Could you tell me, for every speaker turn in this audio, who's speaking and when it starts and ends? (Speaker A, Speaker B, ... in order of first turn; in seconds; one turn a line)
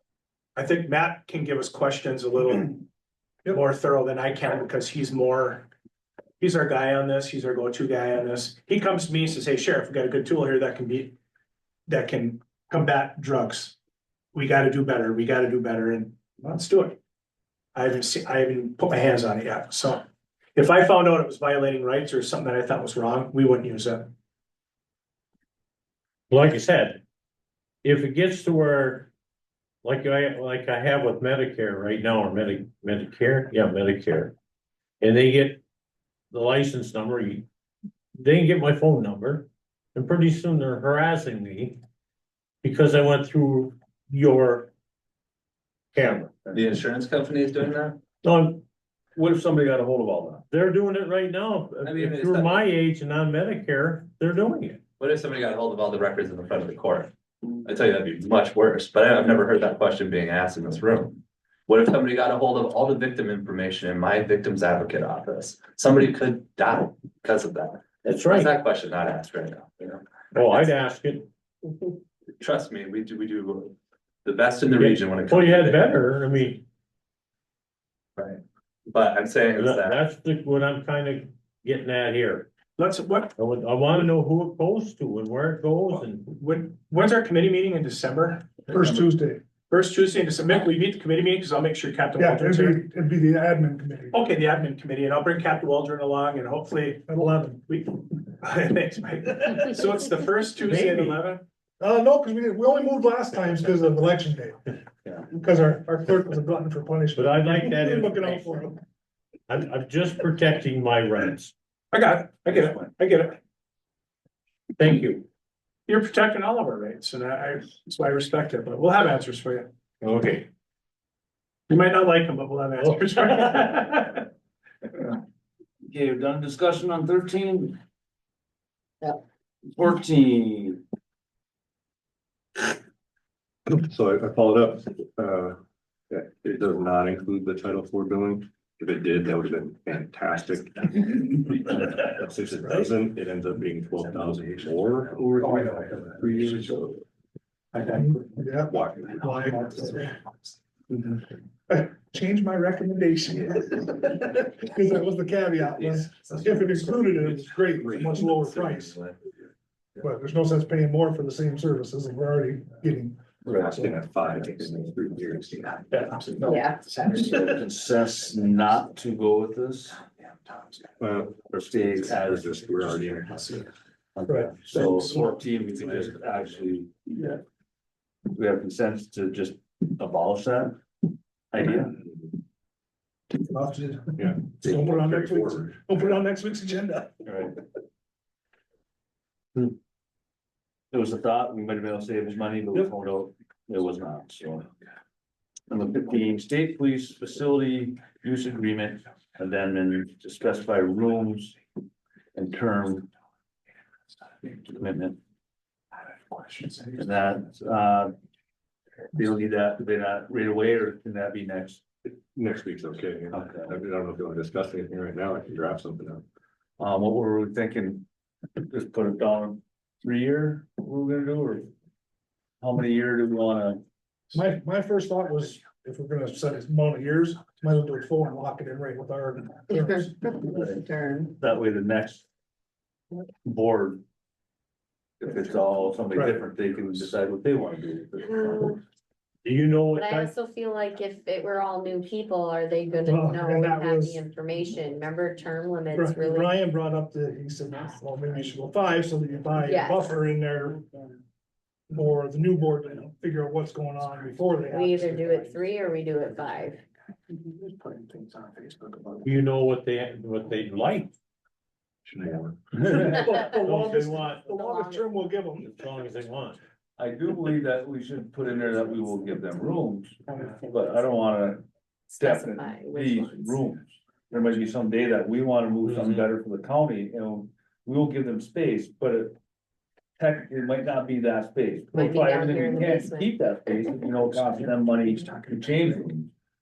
Speaker A: 0.6-2.8
Speaker A: 3.5-5.7
Speaker A: 6.4-11.1
Speaker A: 11.9-13.7
Speaker A: 14.3-17.0
Speaker A: 17.8-20.0
Speaker A: 20.6-24.1
Speaker B: 26.3-27.0
Speaker B: 27.8-29.1
Speaker B: 29.8-34.3
Speaker B: 35.0-35.6
Speaker B: 36.3-37.5
Speaker B: 38.2-41.8
Speaker B: 42.6-44.7
Speaker B: 45.9-46.3
Speaker C: 46.5-48.0
Speaker B: 48.2-48.6
Speaker D: 49.1-50.4
Speaker B: 50.5-54.8
Speaker C: 51.8-52.6
Speaker C: 55.0-57.1
Speaker C: 57.6-70.0
Speaker B: 68.0-68.5
Speaker B: 70.3-71.3
Speaker C: 72.4-76.0
Speaker B: 74.7-76.6
Speaker C: 78.2-80.0
Speaker B: 79.5-82.5
Speaker A: 82.8-83.3
Speaker B: 83.4-86.4
Speaker A: 85.9-89.0
Speaker E: 88.7-89.4
Speaker A: 89.7-92.8
Speaker E: 92.2-94.2
Speaker A: 94.1-97.1
Speaker E: 97.1-97.6
Speaker A: 97.7-101.4
Speaker B: 100.7-101.2
Speaker E: 101.8-104.6
Speaker E: 105.3-108.8
Speaker B: 107.2-108.7
Speaker B: 109.5-111.5
Speaker A: 111.9-113.4
Speaker B: 114.8-115.3
Speaker A: 115.9-119.7
Speaker B: 120.0-120.5
Speaker A: 121.7-124.3
Speaker D: 125.8-127.8
Speaker D: 129.7-130.8
Speaker F: 133.7-135.6
Speaker F: 136.1-145.6
Speaker D: 145.2-146.0
Speaker F: 146.1-147.0
Speaker A: 147.7-148.2
Speaker E: 148.0-150.1
Speaker F: 148.7-149.5
Speaker E: 151.7-159.0
Speaker C: 156.4-159.2
Speaker E: 160.0-163.2
Speaker D: 163.5-163.8
Speaker F: 163.5-166.2
Speaker E: 163.7-164.0
Speaker A: 165.9-167.4
Speaker G: 166.4-166.8
Speaker D: 167.1-170.0
Speaker F: 171.0-173.7
Speaker D: 171.4-172.4
Speaker D: 174.2-177.4
Speaker E: 174.3-174.9
Speaker D: 178.3-180.8
Speaker D: 181.5-182.0
Speaker E: 183.4-187.4
Speaker F: 184.2-185.7
Speaker D: 187.2-187.5
Speaker D: 190.9-194.7
Speaker D: 195.7-201.6
Speaker D: 202.3-203.1
Speaker D: 204.4-205.2
Speaker A: 206.4-206.8
Speaker D: 206.9-208.1
Speaker D: 209.1-211.8
Speaker F: 212.1-216.2
Speaker D: 213.3-213.8
Speaker D: 216.8-221.7
Speaker D: 222.6-223.8
Speaker E: 224.3-230.2
Speaker G: 229.7-231.3
Speaker D: 230.4-232.2
Speaker D: 233.4-234.0
Speaker D: 235.2-238.8
Speaker E: 236.1-236.4
Speaker G: 238.2-238.8
Speaker B: 239.4-240.3
Speaker G: 239.9-246.6
Speaker E: 243.1-244.2
Speaker E: 245.9-250.8
Speaker G: 249.6-250.2
Speaker E: 251.9-255.6
Speaker G: 254.7-256.8
Speaker A: 255.8-256.4
Speaker A: 257.3-259.3
Speaker B: 259.2-261.1
Speaker F: 262.1-263.0
Speaker E: 262.9-265.8
Speaker G: 263.1-263.5
Speaker B: 263.6-264.5
Speaker G: 264.5-265.1
Speaker B: 265.6-266.6
Speaker D: 267.0-271.6
Speaker G: 270.3-270.9
Speaker G: 272.1-273.6
Speaker D: 272.2-279.4
Speaker B: 275.8-276.3
Speaker D: 280.2-286.3
Speaker G: 281.9-283.4
Speaker A: 284.3-286.1